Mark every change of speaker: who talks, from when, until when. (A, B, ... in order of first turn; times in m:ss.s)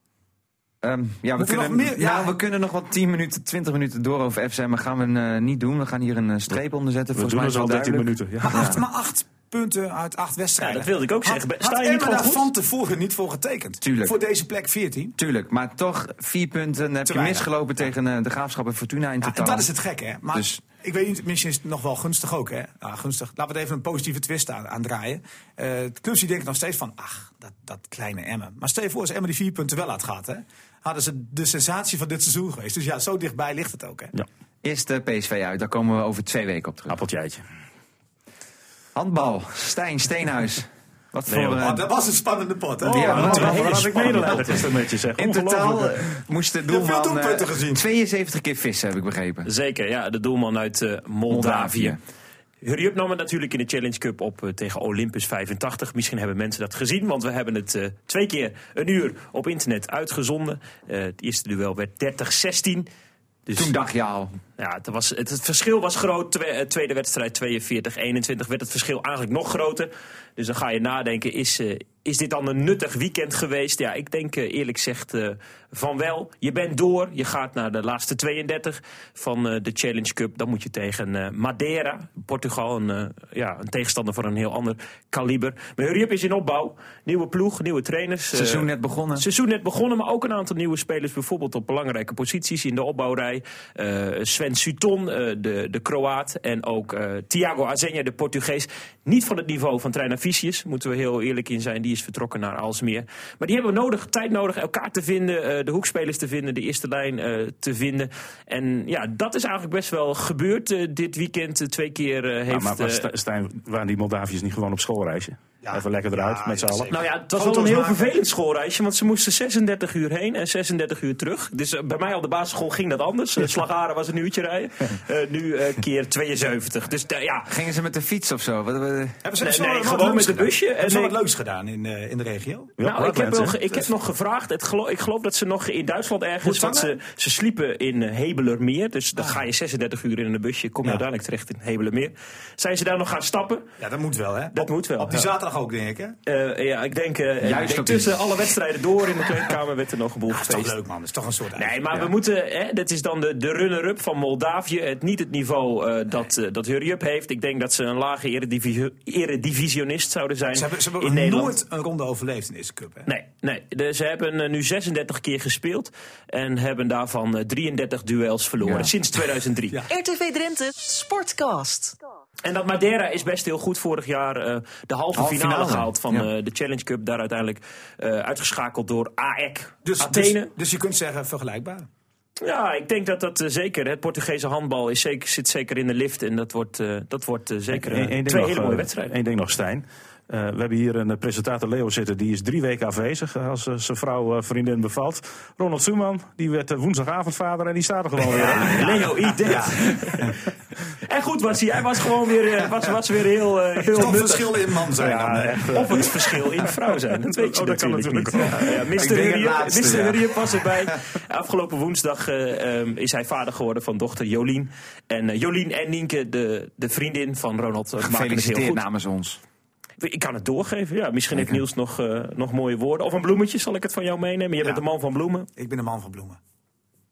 0:00.8-0:08.8 A
0:01.3-0:02.4 B
0:07.1-0:08.7 C
0:08.4-0:15.2 B
0:10.6-0:12.5 D
0:13.8-0:14.1 A
0:15.2-0:19.7 A
0:17.0-0:17.8 B
0:19.2-0:34.1 B
0:34.6-0:37.0 A
0:36.9-0:37.4 C
0:38.9-0:41.8 A
0:41.3-0:41.6 C
0:41.6-0:43.7 B
0:42.8-0:49.5 A
0:42.8-0:46.0 C
0:46.6-0:47.9 B
0:49.4-0:52.0 D
0:51.3-0:52.0 A
0:52.6-1:02.9 D
1:03.5-1:03.7 D
1:03.5-1:04.4 A
1:04.6-1:53.1 D
1:28.3-1:29.2 A
1:52.5-1:56.9 C
1:55.6-1:58.1 B
1:56.9-2:07.6 D
2:07.5-2:09.2 A
2:09.2-2:12.8 B
2:09.4-2:11.2 D
2:12.8-2:13.6 C
2:12.8-2:23.6 D
2:16.4-2:17.0 B
2:23.8-2:26.2 B
2:24.5-2:25.3 D
2:26.2-2:30.7 D
2:27.4-2:28.5 A
2:30.3-2:31.8 B
2:31.5-2:41.6 D
2:40.5-2:43.1 B
2:43.0-2:49.8 D
2:48.6-2:48.9 A
2:49.9-2:52.0 E
2:52.4-3:00.5 D
2:55.1-2:56.3 A
2:59.8-3:01.9 B
3:02.4-3:09.1 D
3:07.7-3:18.9 C
3:18.3-3:19.7 B
3:18.3-3:38.8 D
3:23.9-3:26.1 B
3:25.1-3:25.9 C
3:27.2-3:28.8 C
3:29.0-3:30.6 A
3:38.0-3:39.4 A
3:40.0-3:45.5 D
3:41.3-3:41.6 A
3:45.6-3:46.4 B